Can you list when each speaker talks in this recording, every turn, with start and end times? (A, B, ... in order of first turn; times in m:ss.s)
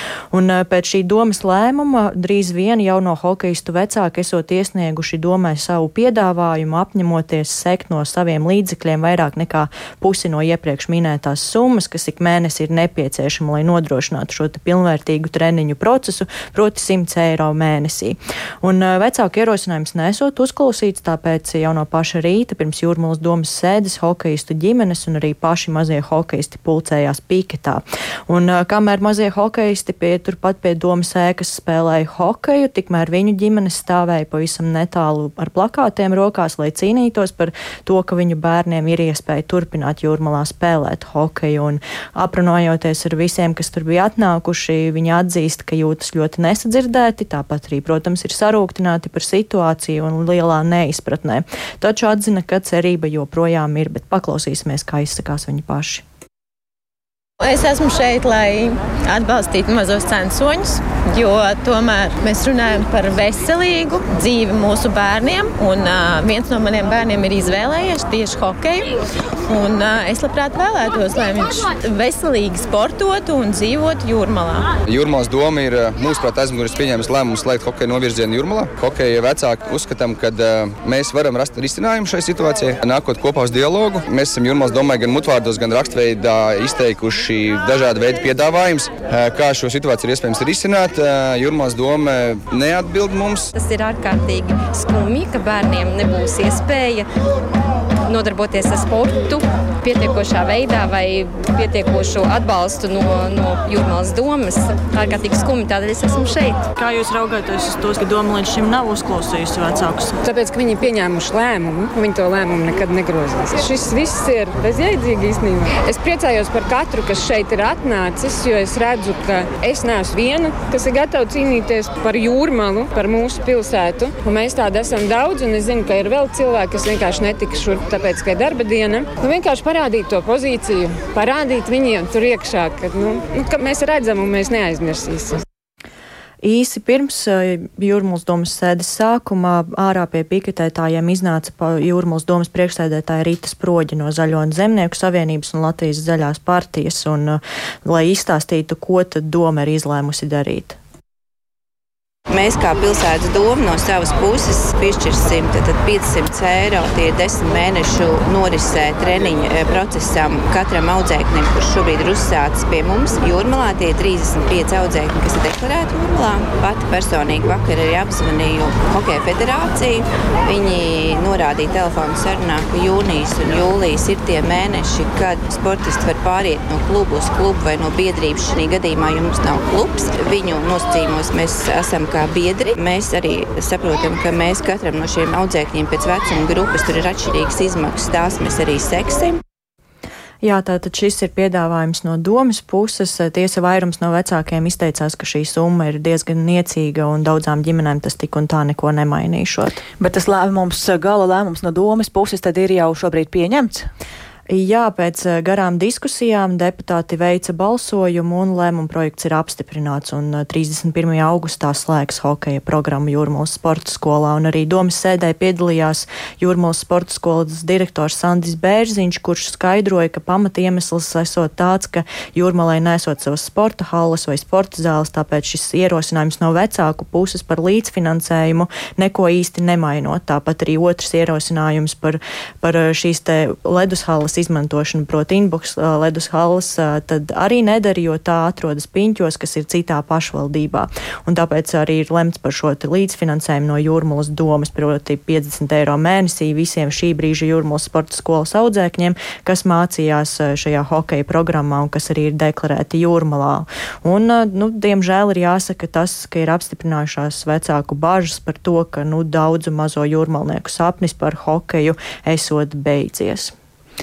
0:00.3-0:56.0 A
0:57.4-1:08.9 B
1:09.5-1:14.7 B
1:14.8-1:33.5 C
1:33.6-1:37.1 D
1:38.1-1:46.6 D
1:46.8-1:50.2 A
1:50.2-2:15.4 E
2:16.4-2:30.8 A
2:32.3-3:09.4 F
3:10.4-3:19.8 A
3:20.0-3:23.9 G
3:24.5-4:23.5 A